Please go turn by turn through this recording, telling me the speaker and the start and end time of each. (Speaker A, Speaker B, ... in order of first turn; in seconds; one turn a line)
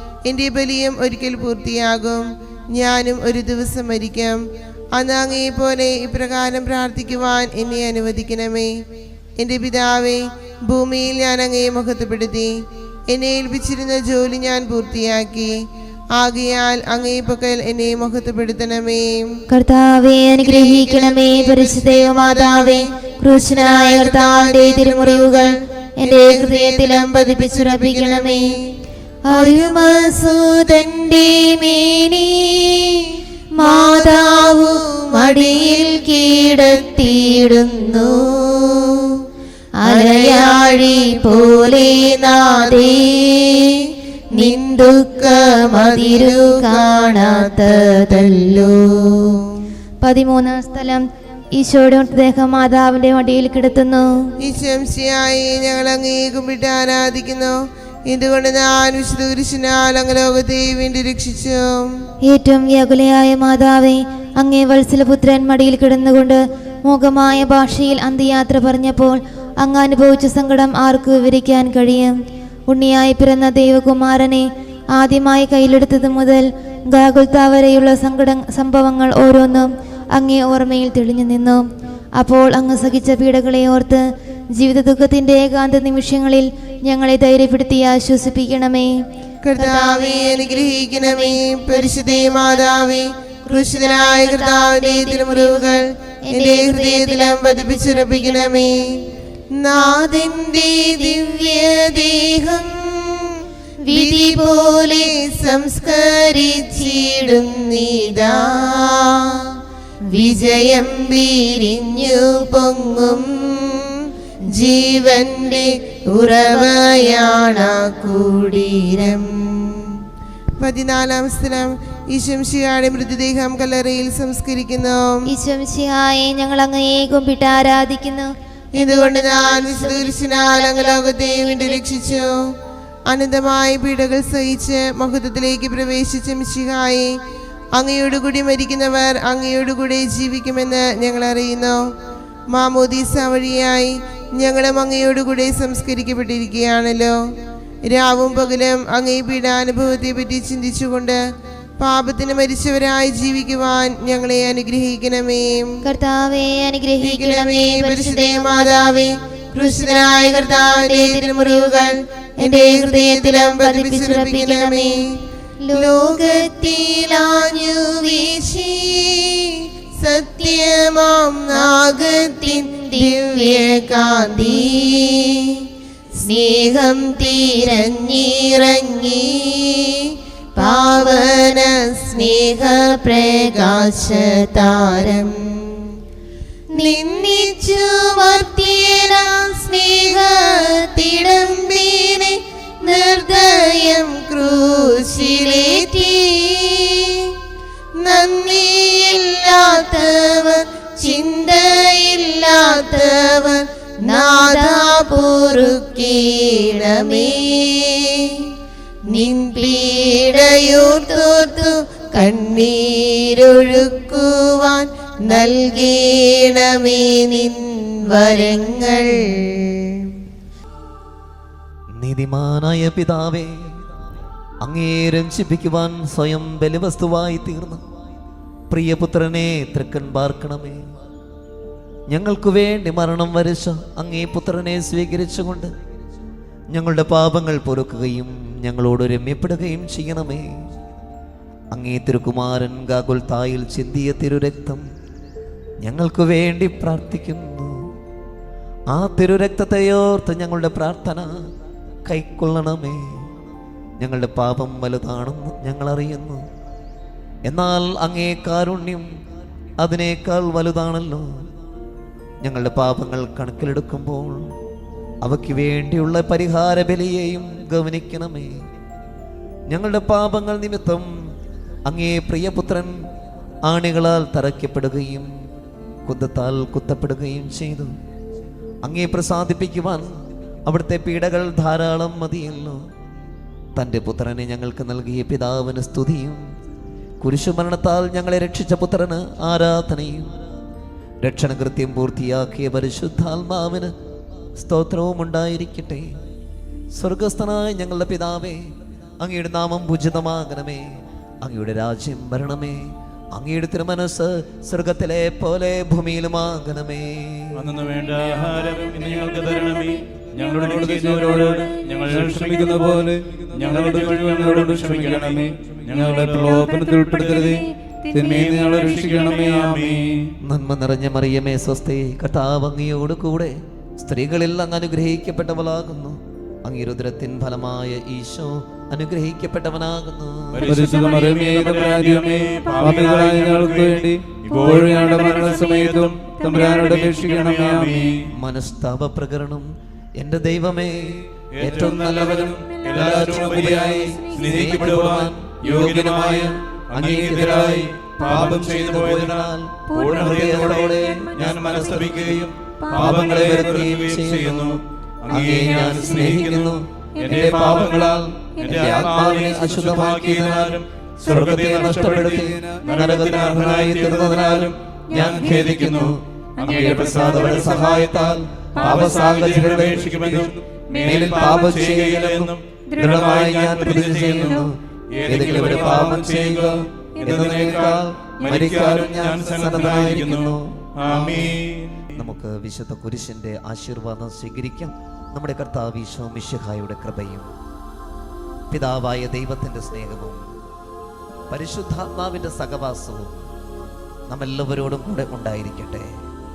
Speaker A: 0.2-4.4
Speaker A: 4.9-8.8
Speaker A: 9.4-12.5
Speaker A: 13.1-15.6
Speaker A: 16.1-19.3
Speaker B: 19.5-28.4
Speaker A: 20.4-22.9
Speaker A: 23.6-25.5
Speaker A: 26.0-28.5
Speaker B: 29.3-33.1
Speaker A: 29.3-29.7
Speaker A: 33.6-35.9
Speaker B: 33.6-38.7
Speaker B: 39.8-43.7
Speaker A: 39.9-40.7
Speaker A: 42.5-43.0
Speaker B: 44.4-48.7
Speaker A: 44.4-47.9
Speaker B: 50.0-51.0
Speaker B: 51.5-54.1
Speaker A: 54.4-57.6
Speaker A: 58.1-61.9
Speaker B: 62.2-72.2
Speaker B: 72.7-81.6
Speaker B: 82.2-84.0
Speaker B: 84.5-88.9
Speaker A: 89.5-98.8
Speaker B: 89.6-91.3
Speaker B: 93.6-95.7
Speaker B: 96.3-97.4
Speaker A: 99.6-103.3
Speaker B: 103.9-105.0
Speaker A: 103.9-109.4
Speaker A: 110.1-113.9
Speaker A: 114.6-119.3
Speaker A: 120.6-125.2
Speaker B: 125.3-128.3
Speaker A: 128.8-132.3
Speaker B: 128.8-130.1
Speaker A: 133.1-137.1
Speaker A: 137.8-141.8
Speaker A: 142.5-147.2
Speaker A: 147.9-151.2
Speaker A: 151.8-155.7
Speaker B: 155.8-158.7
Speaker A: 157.0-165.0
Speaker B: 159.7-161.9
Speaker B: 162.4-165.0
Speaker B: 165.7-168.0
Speaker A: 165.7-169.5
Speaker A: 170.0-175.4
Speaker B: 172.4-173.4
Speaker B: 176.2-179.2
Speaker A: 177.5-177.9
Speaker A: 180.6-182.5
Speaker B: 180.6-181.2
Speaker B: 182.3-183.6
Speaker A: 183.5-185.4
Speaker B: 186.7-192.3
Speaker A: 186.8-187.6
Speaker A: 189.0-192.3
Speaker A: 192.8-196.2
Speaker B: 193.0-193.9
Speaker B: 195.0-196.9
Speaker A: 198.1-207.8
Speaker B: 199.6-200.4
Speaker B: 201.8-203.1
Speaker B: 204.0-206.1
Speaker B: 207.1-207.3
Speaker A: 209.1-217.6
Speaker B: 209.2-211.6
Speaker B: 215.4-215.6
Speaker A: 218.1-219.1
Speaker C: 221.9-223.7
Speaker C: 224.6-227.8
Speaker C: 228.7-230.8
Speaker C: 232.1-235.7
Speaker C: 236.7-240.5
Speaker C: 241.7-244.8
Speaker C: 245.8-247.9
Speaker C: 248.9-251.4
Speaker C: 252.1-253.2
Speaker C: 254.0-256.4
Speaker C: 257.5-259.1
Speaker C: 259.8-261.3
Speaker C: 262.4-264.5
Speaker C: 265.2-268.5
Speaker C: 269.7-271.1
Speaker C: 271.9-273.0
Speaker C: 273.6-275.3
Speaker C: 276.1-277.9
Speaker C: 278.8-280.1
Speaker C: 280.7-282.8
Speaker C: 283.8-286.4
Speaker C: 287.2-290.3
Speaker C: 291.2-293.9
Speaker C: 294.6-296.1
Speaker C: 296.9-307.6
Speaker D: 307.5-320.3
Speaker C: 320.4-330.9
Speaker D: 330.5-338.2
Speaker C: 338.4-339.7
Speaker C: 340.2-354.8
Speaker D: 341.6-382.1
Speaker C: 355.3-358.0
Speaker C: 358.6-370.1
Speaker C: 371.0-374.7
Speaker C: 375.3-381.6
Speaker C: 382.1-387.5
Speaker C: 388.7-390.4
Speaker C: 391.5-393.4
Speaker C: 394.3-396.1